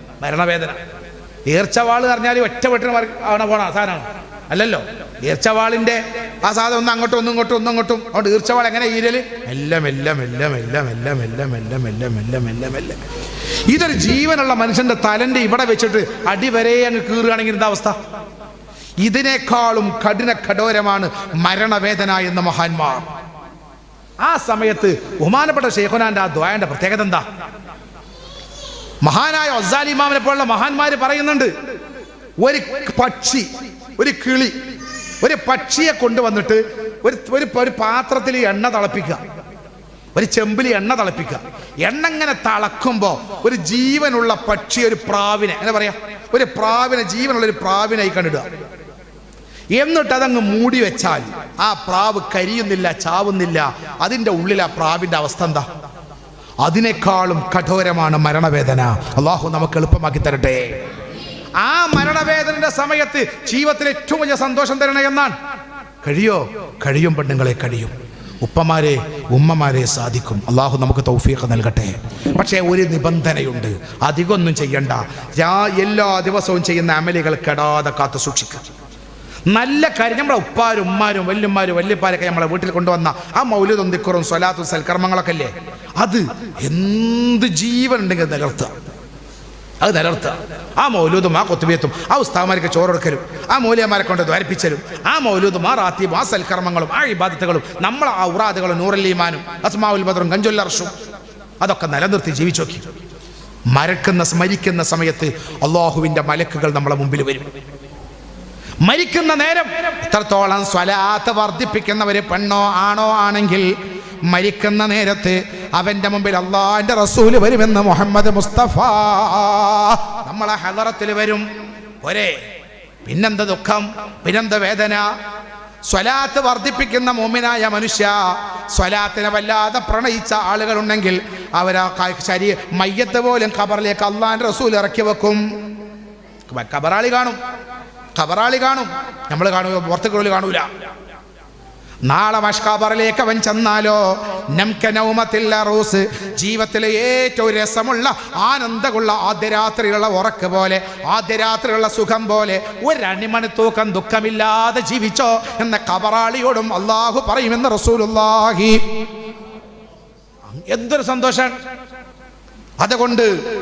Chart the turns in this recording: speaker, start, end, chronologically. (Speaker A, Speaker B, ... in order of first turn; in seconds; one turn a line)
Speaker A: 0.2-0.8
Speaker A: 1.4-13.0
Speaker A: 13.7-18.0
Speaker A: 19.0-23.1
Speaker A: 24.2-27.2
Speaker A: 29.0-31.5
Speaker A: 32.4-34.5
Speaker A: 35.2-39.2
Speaker A: 40.1-48.5
Speaker A: 49.7-55.7
Speaker A: 56.6-60.8
Speaker A: 61.6-65.3
Speaker A: 66.0-78.6
Speaker A: 79.5-88.7
Speaker A: 89.8-100.9
Speaker A: 101.6-102.9
Speaker A: 103.7-107.5
Speaker A: 108.8-113.7
Speaker A: 114.3-121.5
Speaker A: 122.0-122.3
Speaker A: 123.0-125.1
Speaker A: 125.8-135.4
Speaker A: 136.5-137.4
Speaker A: 138.2-140.7
Speaker A: 142.1-158.8
Speaker A: 160.5-161.5
Speaker A: 162.8-163.3